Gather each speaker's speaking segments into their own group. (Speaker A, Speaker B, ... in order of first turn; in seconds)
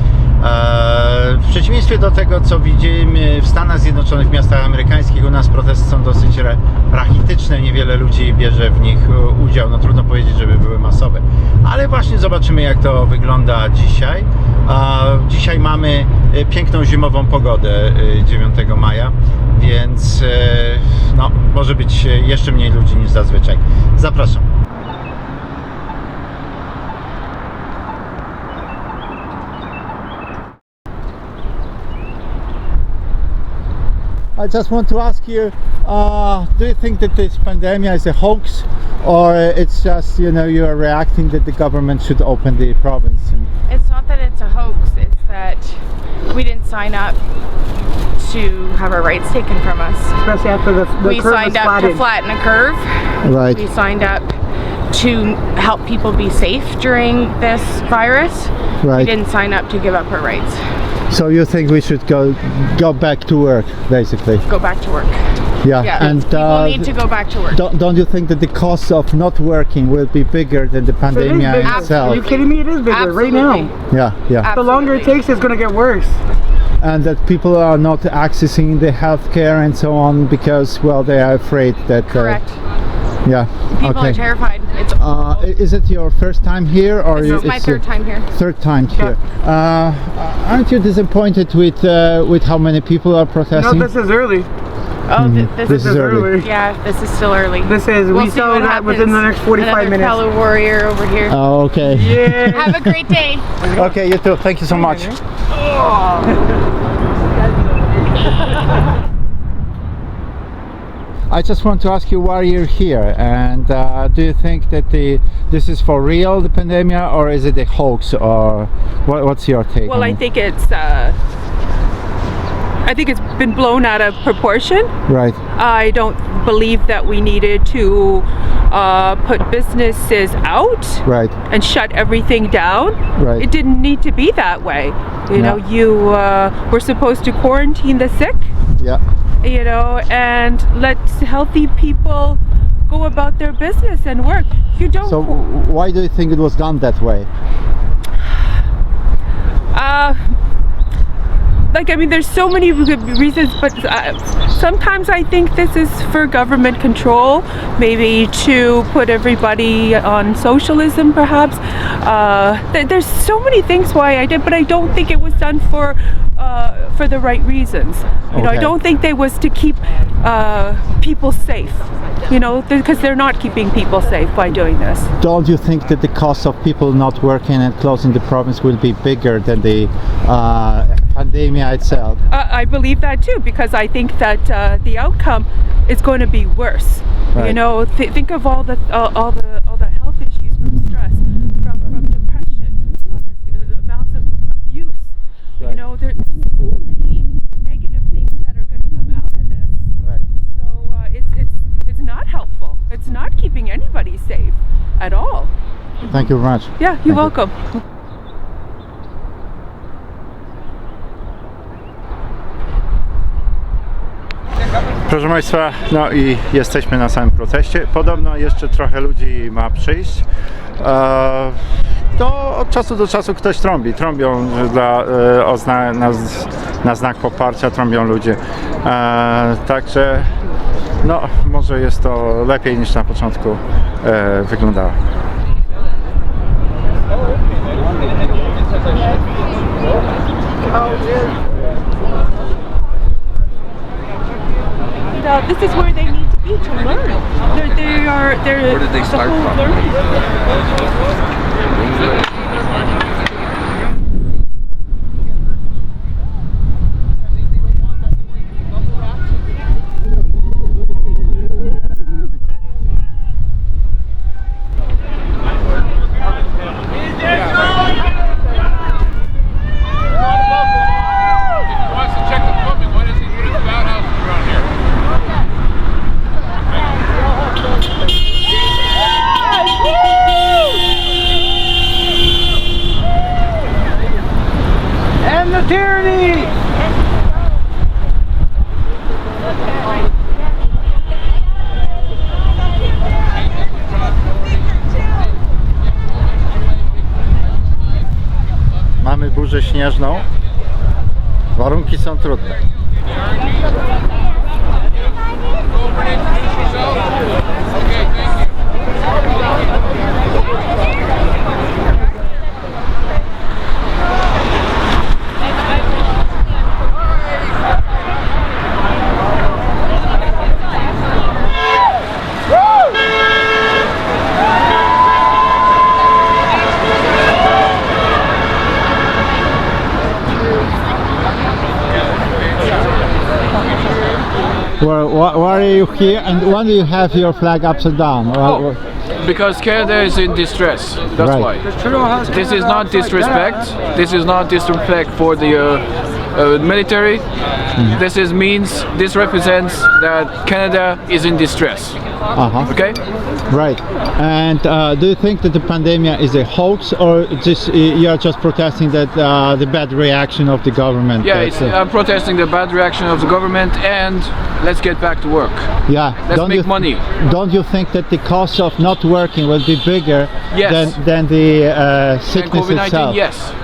Speaker A: 0.4-24.5, 34.4-43.5, 53.2-53.6, 58.8-59.1, 61.1-64.4, 65.6-66.9, 67.5-72.3, 73.9-74.5, 76.8-82.4, 83.2-84.2, 85.0-93.9, 95.2-96.3, 101.3-102.9, 103.6-105.2, 111.3-120.2, 125.1-125.4, 131.1-131.3, 133.2-133.5, 135.3-135.6, 145.0-147.3, 168.3-168.7, 175.2-182.2, 206.0-207.3, 215.1-220.2, 220.8-221.6, 222.2-230.3, 231.0-235.0, 299.0-300.3, 301.6-302.6, 334.8-338.8, 341.2-341.5, 347.8-348.0, 352.3-352.7, 353.5-361.8, 365.9-373.2
Speaker B: 43.7-45.8, 46.3-47.2, 48.2-50.2, 51.0-54.3, 54.9-60.6, 64.5-67.6, 71.6-73.7, 74.4-75.1, 82.1-82.6, 83.7-85.1, 87.1-88.3, 95.1-101.4, 102.5-103.5
Speaker C: 50.2-52.0, 71.1-73.7, 74.5-76.2, 93.5-94.5, 95.7-96.5, 97.6-100.2, 101.8-102.6, 104.7-105.2
Speaker D: 119.9-121.2, 122.8-124.9, 125.5-138.5, 139.4-145.4, 149.7-150.3, 151.7-175.1, 182.3-199.9, 200.4-205.5, 206.8-207.8, 245.1-250.1
Speaker E: 339.2-347.2, 347.9-352.0, 352.7-353.0, 361.2-367.0, 370.5-371.0, 372.3-373.6